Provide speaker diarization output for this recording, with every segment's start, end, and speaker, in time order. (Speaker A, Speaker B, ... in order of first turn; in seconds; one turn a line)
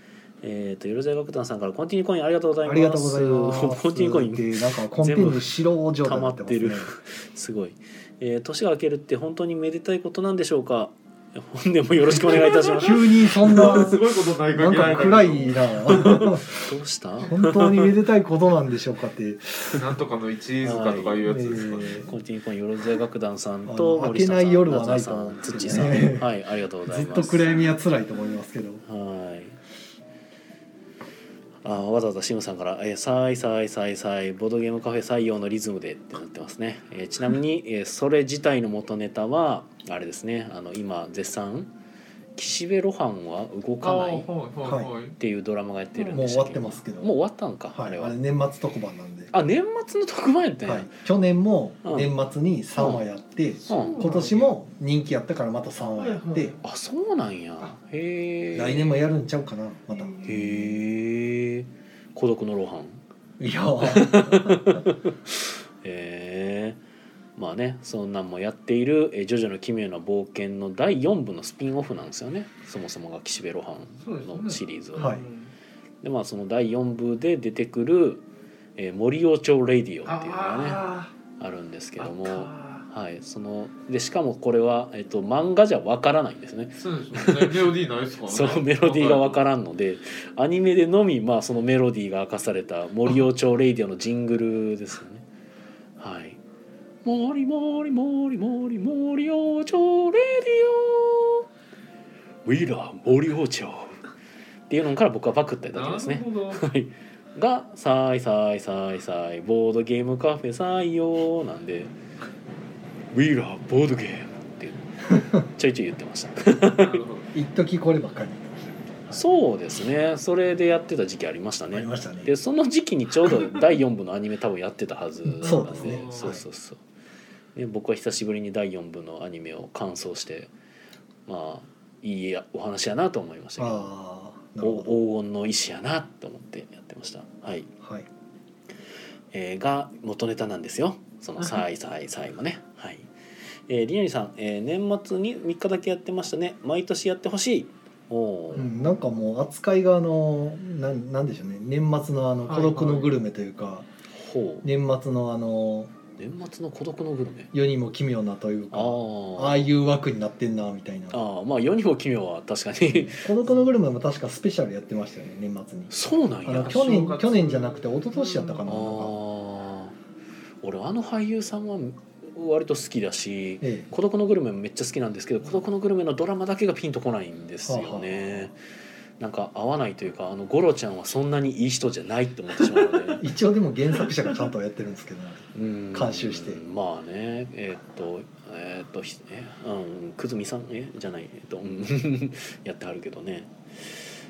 Speaker A: 0.4-13.9
Speaker B: 2.6-6.9
Speaker B: 12.8-16.6
Speaker C: 13.3-16.2
Speaker A: 16.5-17.9
Speaker B: 17.2-19.8
Speaker C: 19.7-22.1
Speaker A: 20.6-21.2
Speaker B: 21.2-22.1
Speaker A: 22.0-27.6
Speaker B: 23.6-26.3
Speaker B: 26.9-28.8
Speaker A: 28.9-29.6
Speaker A: 31.6-41.7
Speaker A: 42.3-44.3
Speaker C: 43.8-45.1
Speaker B: 44.6-44.9
Speaker A: 45.2-48.1
Speaker B: 46.1-47.1
Speaker B: 47.7-49.3
Speaker A: 49.3-50.9
Speaker B: 50.6-56.5
Speaker A: 51.8-52.1
Speaker A: 52.8-53.0
Speaker C: 53.6-54.5
Speaker A: 53.7-54.0
Speaker C: 55.9-56.6
Speaker A: 56.6-59.1
Speaker B: 58.5-60.1
Speaker C: 59.9-60.6
Speaker A: 60.2-63.0
Speaker B: 63.4-64.9
Speaker A: 63.8-66.8
Speaker A: 67.4-75.1
Speaker C: 74.0-75.5
Speaker B: 75.0-75.2
Speaker A: 76.0-78.2
Speaker A: 78.8-87.7
Speaker C: 80.0-81.1
Speaker C: 82.0-82.8
Speaker C: 86.8-89.4
Speaker A: 88.3-95.2
Speaker A: 96.0-96.4
Speaker A: 97.0-101.5
Speaker A: 102.4-104.0
Speaker A: 104.7-111.9
Speaker C: 105.7-106.7
Speaker A: 113.1-117.0
Speaker C: 116.7-117.3
Speaker B: 117.3-119.2
Speaker A: 119.1-126.8
Speaker B: 121.7-122.3
Speaker B: 125.2-126.4
Speaker C: 125.4-126.3
Speaker A: 127.5-130.5
Speaker A: 131.3-133.9
Speaker B: 133.6-135.0
Speaker A: 134.6-137.7
Speaker B: 137.8-138.1
Speaker A: 139.3-143.1
Speaker A: 143.7-148.7
Speaker B: 148.5-153.9
Speaker C: 152.5-153.1
Speaker A: 154.1-154.7
Speaker B: 154.6-155.9
Speaker A: 156.2-157.5
Speaker B: 157.5-161.2
Speaker A: 158.7-159.7
Speaker A: 161.1-163.2
Speaker B: 162.9-165.9
Speaker A: 165.9-167.0
Speaker B: 166.4-169.2
Speaker C: 166.6-168.7
Speaker A: 168.7-169.9
Speaker A: 170.6-178.6
Speaker B: 173.6-173.9
Speaker B: 177.6-178.4
Speaker A: 179.2-183.3
Speaker B: 183.1-186.6
Speaker A: 185.5-194.1